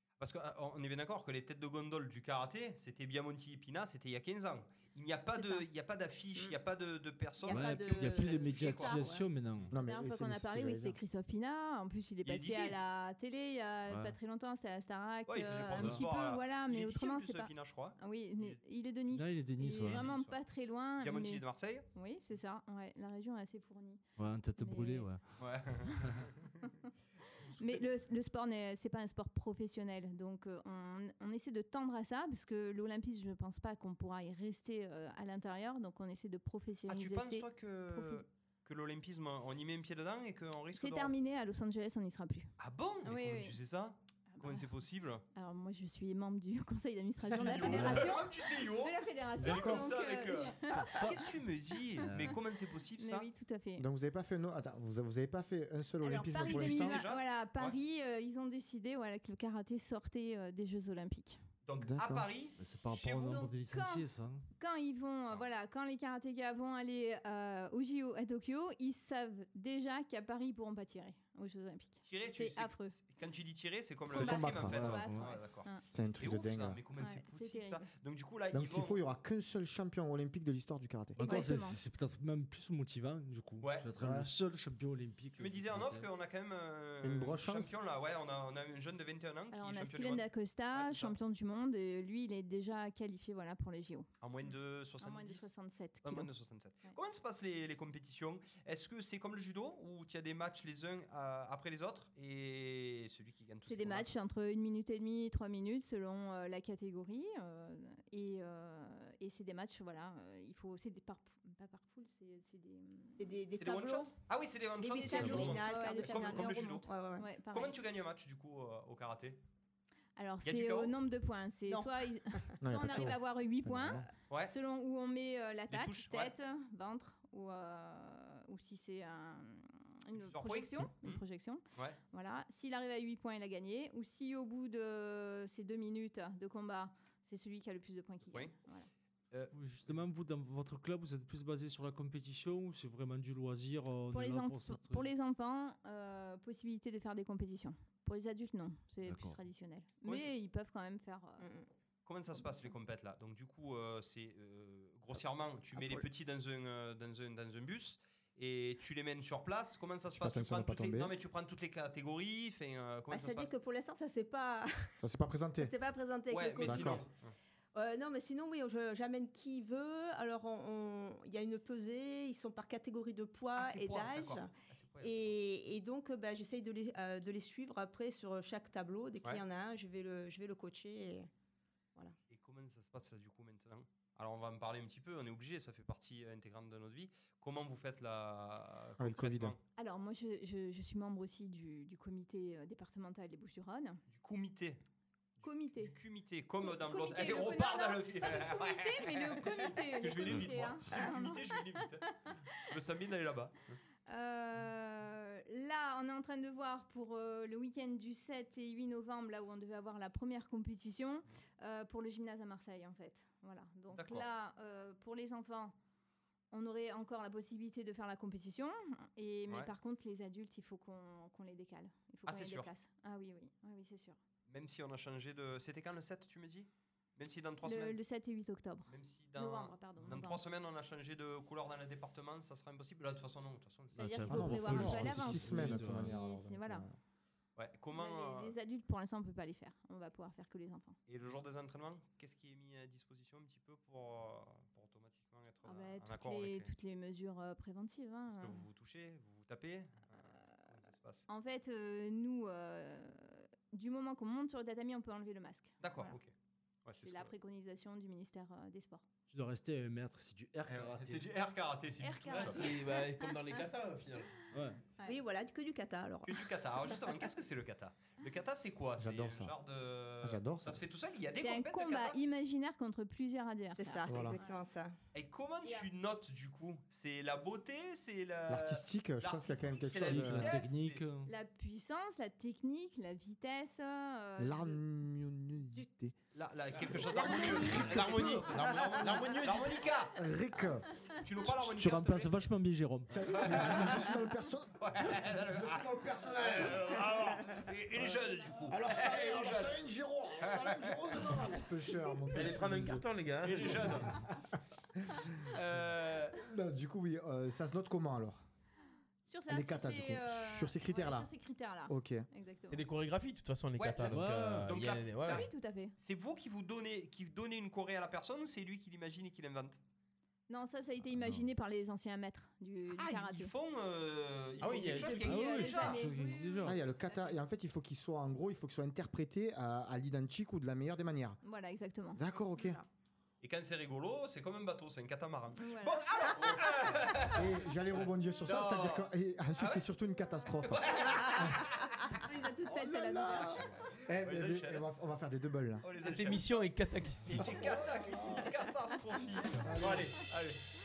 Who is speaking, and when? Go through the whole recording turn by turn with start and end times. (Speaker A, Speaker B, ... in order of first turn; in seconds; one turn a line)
Speaker A: 0.2-9.0
Speaker B: 7.4-9.3
Speaker C: 7.5-9.7
Speaker D: 9.7-11.0
Speaker E: 9.8-21.4
Speaker A: 12.2-12.8
Speaker C: 13.9-14.1
Speaker A: 15.3-18.6
Speaker C: 15.7-16.0
Speaker C: 19.1-20.1
Speaker A: 19.7-20.4
Speaker A: 21.0-21.8
Speaker E: 21.9-24.0
Speaker C: 24.2-25.2
Speaker E: 24.6-25.1
Speaker A: 25.4-26.3
Speaker A: 27.5-27.8
Speaker E: 27.5-38.2
Speaker A: 36.9-41.1
Speaker E: 40.7-42.5
Speaker A: 42.6-45.2
Speaker E: 43.0-43.5
Speaker E: 44.3-44.6
Speaker E: 45.3-51.2
Speaker A: 47.2-53.3
Speaker C: 47.7-48.0
Speaker E: 53.0-53.9
Speaker D: 53.8-57.0
Speaker E: 56.0-61.4
Speaker A: 56.4-57.8
Speaker A: 61.6-63.5
Speaker D: 61.8-62.3
Speaker C: 62.6-64.4
Speaker E: 63.2-64.0
Speaker E: 64.6-73.0
Speaker A: 72.0-79.0
Speaker E: 74.1-75.8
Speaker D: 74.1-75.0
Speaker D: 75.9-76.8
Speaker E: 77.0-77.9
Speaker D: 78.5-81.2
Speaker E: 81.2-81.8
Speaker C: 81.2-86.1
Speaker A: 83.6-83.9
Speaker D: 84.0-84.3
Speaker A: 85.3-91.2
Speaker D: 87.0-87.8
Speaker E: 89.5-94.1
Speaker A: 94.2-95.5
Speaker E: 95.0-96.3
Speaker A: 96.0-104.1
Speaker E: 103.7-113.2
Speaker B: 113.1-114.2
Speaker A: 113.5-116.9
Speaker B: 114.8-117.3
Speaker E: 115.0-117.8
Speaker C: 115.2-115.5
Speaker A: 117.5-119.4
Speaker E: 120.2-138.9
Speaker A: 120.4-120.9
Speaker B: 121.7-122.6
Speaker D: 122.6-124.0
Speaker A: 124.3-124.5
Speaker A: 125.7-126.3
Speaker A: 130.1-131.2
Speaker A: 139.3-139.9
Speaker C: 139.5-145.1
Speaker E: 144.1-151.4
Speaker C: 149.0-149.4
Speaker A: 150.0-150.3
Speaker B: 151.4-151.7
Speaker A: 152.1-163.5
Speaker B: 155.8-156.0
Speaker D: 160.1-161.1
Speaker B: 163.1-164.9
Speaker D: 165.0-165.7
Speaker B: 165.6-167.1
Speaker A: 166.3-167.3
Speaker D: 166.6-167.0
Speaker B: 167.7-181.3
Speaker A: 173.6-175.4
Speaker A: 182.3-189.6
Speaker D: 189.0-189.5
Speaker E: 189.8-194.0
Speaker A: 194.1-194.8
Speaker A: 195.4-202.1
Speaker E: 195.4-195.9
Speaker E: 196.6-202.1
Speaker C: 200.2-201.0
Speaker A: 202.7-203.8
Speaker E: 204.1-215.7
Speaker A: 213.9-214.3
Speaker E: 216.5-224.2
Speaker A: 222.2-222.7
Speaker A: 224.5-228.0
Speaker E: 227.6-230.4
Speaker A: 228.9-234.5
Speaker C: 233.9-236.1
Speaker E: 234.0-236.9
Speaker D: 234.3-236.9
Speaker A: 237.6-238.5
Speaker E: 237.9-241.0
Speaker A: 241.1-246.7
Speaker E: 245.6-248.6
Speaker A: 248.3-251.2
Speaker E: 251.3-256.2
Speaker A: 255.8-256.3
Speaker A: 256.9-257.3
Speaker E: 256.9-259.0
Speaker C: 259.3-261.2
Speaker A: 260.7-262.7
Speaker E: 262.0-263.6
Speaker F: 262.4-264.3
Speaker C: 264.5-264.8
Speaker B: 265.1-266.4
Speaker A: 266.2-272.2
Speaker D: 269.0-269.5
Speaker D: 270.2-270.8
Speaker E: 271.3-274.6
Speaker B: 273.7-274.9
Speaker D: 274.1-274.4
Speaker A: 275.1-281.0
Speaker D: 278.5-280.6
Speaker C: 280.0-281.3
Speaker E: 281.2-284.8
Speaker D: 284.4-286.1
Speaker A: 286.3-290.1
Speaker D: 286.9-289.2
Speaker B: 287.1-287.8
Speaker E: 287.4-287.7
Speaker F: 287.7-289.8
Speaker D: 290.1-290.9
Speaker A: 291.2-292.4
Speaker C: 291.4-293.1
Speaker D: 293.1-296.8
Speaker A: 293.2-294.1
Speaker A: 294.8-295.9
Speaker A: 296.4-299.7
Speaker D: 298.7-303.1
Speaker A: 300.4-301.4
Speaker F: 302.3-304.1
Speaker A: 303.4-304.2
Speaker A: 305.5-306.4
Speaker D: 306.4-308.4
Speaker E: 309.2-312.8
Speaker D: 309.5-311.3
Speaker D: 311.9-312.3
Speaker F: 312.7-315.5
Speaker A: 313.8-319.8
Speaker C: 314.1-314.6
Speaker E: 315.2-315.9
Speaker E: 320.5-323.5
Speaker C: 321.1-321.4
Speaker A: 322.9-326.1
Speaker F: 324.6-325.4
Speaker E: 324.9-327.4
Speaker C: 325.2-326.8
Speaker D: 326.6-331.4
Speaker E: 331.4-332.2
Speaker D: 332.1-332.8
Speaker B: 332.5-332.9
Speaker A: 333.4-339.9
Speaker E: 335.6-336.1
Speaker D: 337.3-341.6
Speaker A: 340.7-341.7
Speaker E: 342.2-343.7
Speaker B: 342.8-343.4
Speaker D: 344.0-345.9
Speaker A: 344.2-344.8
Speaker A: 345.8-346.4
Speaker F: 346.0-347.6
Speaker A: 347.2-350.6
Speaker D: 349.6-350.1